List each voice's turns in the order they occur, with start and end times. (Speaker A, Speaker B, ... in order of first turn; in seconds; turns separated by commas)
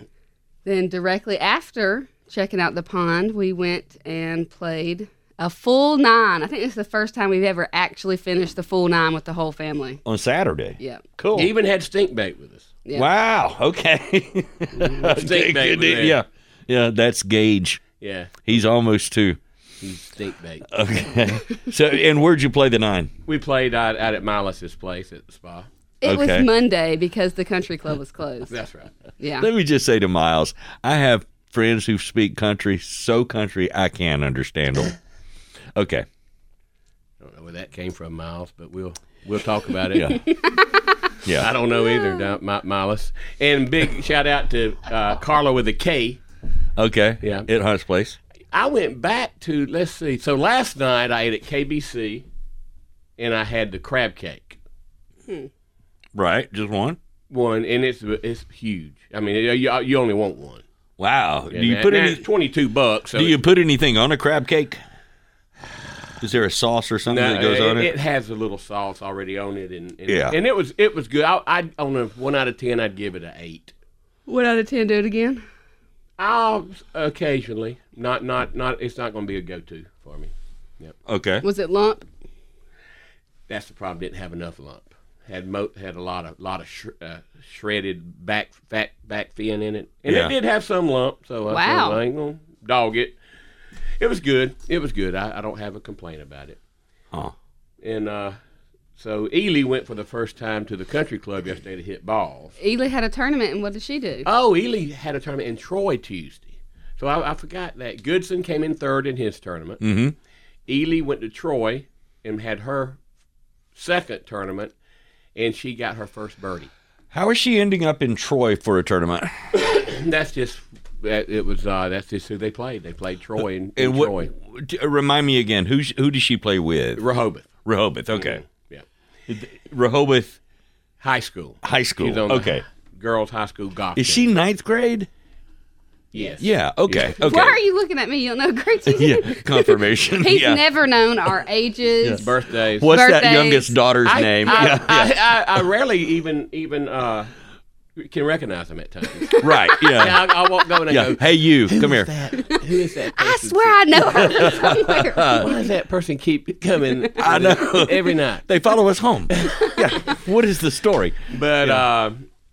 Speaker A: 0.6-10.0, Speaker B: 10.0-11.5, Speaker A: 10.8-11.0, Speaker C: 11.3-12.7, Speaker B: 12.9-17.8, Speaker C: 14.8-16.2, Speaker C: 18.0-18.6, Speaker B: 18.4-19.4, Speaker C: 19.8-20.7, Speaker B: 20.7-23.1, Speaker C: 23.2-25.7, Speaker A: 26.0-28.5, Speaker B: 26.0-26.5, Speaker C: 28.5-28.9, Speaker A: 29.2-29.5, Speaker B: 29.4-34.9, Speaker B: 35.7-36.0, Speaker C: 37.2-40.2, Speaker B: 39.9-40.2, Speaker A: 40.3-40.8, Speaker B: 41.2-41.5, Speaker C: 41.3-46.2, Speaker A: 41.9-42.2, Speaker B: 46.8-48.2, Speaker C: 47.2-47.5, Speaker C: 48.5-52.2, Speaker C: 53.2-54.6, Speaker B: 56.1-57.0, Speaker C: 57.3-60.6, Speaker B: 61.0-62.2, Speaker C: 61.5-63.4, Speaker B: 63.1-64.8, Speaker B: 66.2-67.9, Speaker C: 67.1-73.7, Speaker B: 70.1-70.4, Speaker A: 74.3-75.4, Speaker C: 76.2-80.9, Speaker B: 81.0-81.4, Speaker A: 81.4-82.0, Speaker C: 83.5-93.2, Speaker B: 90.1-90.3, Speaker A: 91.5-92.0, Speaker C: 94.0-96.6, Speaker C: 97.8-98.3, Speaker C: 99.0-102.5, Speaker A: 102.6-104.3, Speaker C: 104.2-109.8, Speaker B: 109.8-110.2, Speaker C: 110.7-113.0, Speaker C: 113.7-114.7, Speaker C: 115.3-116.7, Speaker B: 117.1-119.3, Speaker C: 119.5-124.3, Speaker B: 123.8-127.0, Speaker C: 127.0-127.5, Speaker B: 127.6-128.4, Speaker C: 128.1-128.8, Speaker B: 129.3-130.3, Speaker C: 131.0-134.3, Speaker B: 131.6-132.6, Speaker B: 133.9-135.1, Speaker C: 136.1-137.2, Speaker B: 136.4-137.6, Speaker A: 137.2-143.7, Speaker B: 138.9-140.6, Speaker C: 142.2-142.9, Speaker B: 142.8-145.3, Speaker C: 144.0-147.3, Speaker A: 144.5-144.8, Speaker C: 147.9-158.4, Speaker B: 149.4-150.3, Speaker B: 150.9-152.1, Speaker A: 153.1-155.5, Speaker B: 154.2-155.4, Speaker B: 157.1-161.8, Speaker C: 159.3-159.8, Speaker C: 161.3-162.2